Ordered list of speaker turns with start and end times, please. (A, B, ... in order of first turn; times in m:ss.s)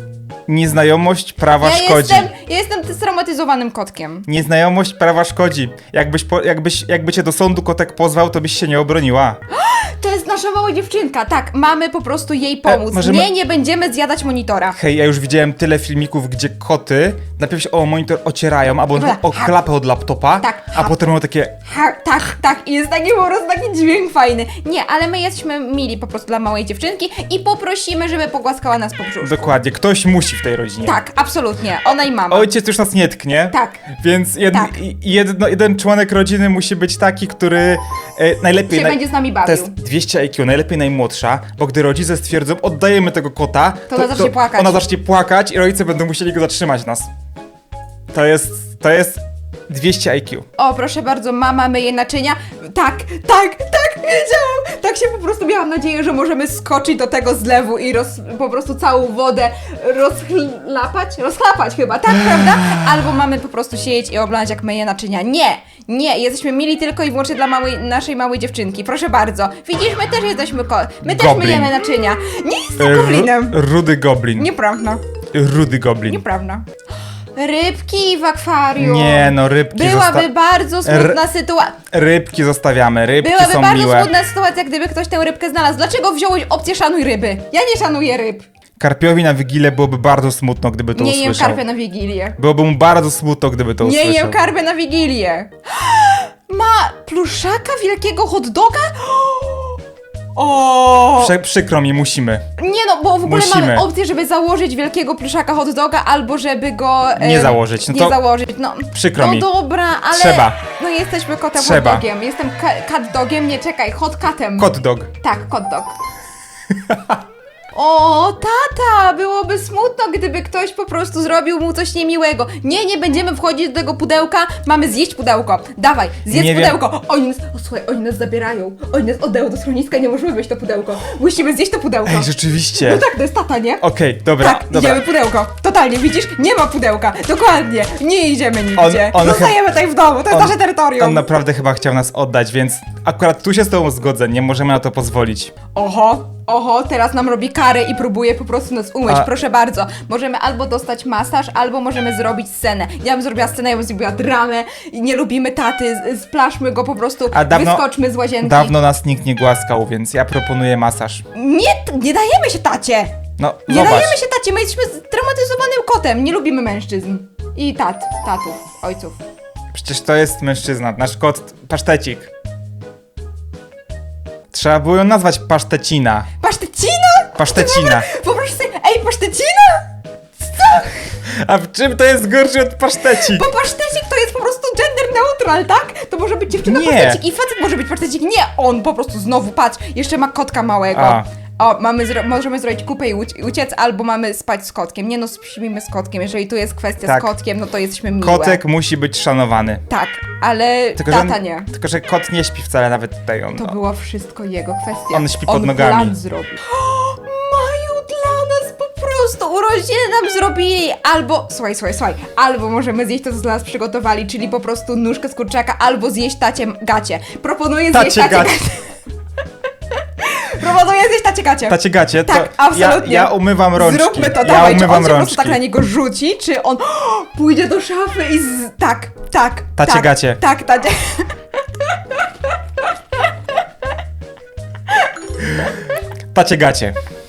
0:00.5-0:02.3 A
0:01.6-0:04.3 B
0:04.2-0:09.4 A
0:09.5-0:14.8 B
0:12.6-0:13.3 A
0:14.7-0:21.6 A
0:18.9-0:19.5 B
0:20.4-0:20.9 B
0:21.6-0:29.6 B
0:29.2-0:31.0 A
0:30.8-0:32.5 B
0:32.3-0:47.1 A
0:33.5-0:33.8 B
0:34.5-0:34.7 B
0:38.7-0:39.7 B
0:43.9-0:44.8 B
0:48.1-0:50.4 A
0:50.6-1:13.6 B
1:02.4-1:02.8 A
1:11.0-1:11.7 A
1:12.8-1:14.5 A
1:14.4-1:15.0 B
1:15.3-1:16.2 A
1:16.1-1:16.6 B
1:17.3-1:21.8 B
1:18.8-1:20.3 A
1:20.8-1:21.2 A
1:21.9-1:24.1 A
1:23.2-1:28.4 B
1:28.8-1:31.6 A
1:30.9-1:32.4 B
1:32.4-1:34.4 A
1:33.8-1:39.8 B
1:40.3-1:41.3 B
1:41.2-1:42.4 A
1:42.6-1:56.0 B
1:43.2-1:43.9 A
1:47.2-1:48.2 A
1:48.9-1:49.5 A
1:50.1-1:50.6 A
1:51.5-1:52.0 A
1:54.6-1:55.1 A
1:56.9-1:57.2 A
1:57.7-2:13.8 B
2:06.3-2:06.8 A
2:12.0-2:13.0 A
2:13.8-2:15.0 A
2:14.4-2:21.2 B
2:18.8-2:19.6 A
2:20.3-2:25.5 A
2:25.7-2:38.7 B
2:37.3-2:37.8 A
2:38.4-2:41.2 A
2:41.3-2:43.2 B
2:43.4-2:44.2 A
2:43.7-2:49.2 B
2:49.7-2:52.3 A
2:54.5-2:56.3 A
2:56.4-3:01.0 B
2:57.4-2:58.1 A
3:01.2-3:03.5 A
3:03.1-3:18.6 B
3:06.6-3:07.2 A
3:10.9-3:11.3 A
3:18.2-3:19.8 A
3:19.9-3:21.7 B
3:21.0-3:23.8 A
3:23.5-3:38.9 B
3:25.1-3:26.2 A
3:37.9-3:38.6 A
3:39.9-3:52.2 B
3:41.7-3:45.6 A
3:49.8-3:50.4 A
3:56.3-3:56.9 A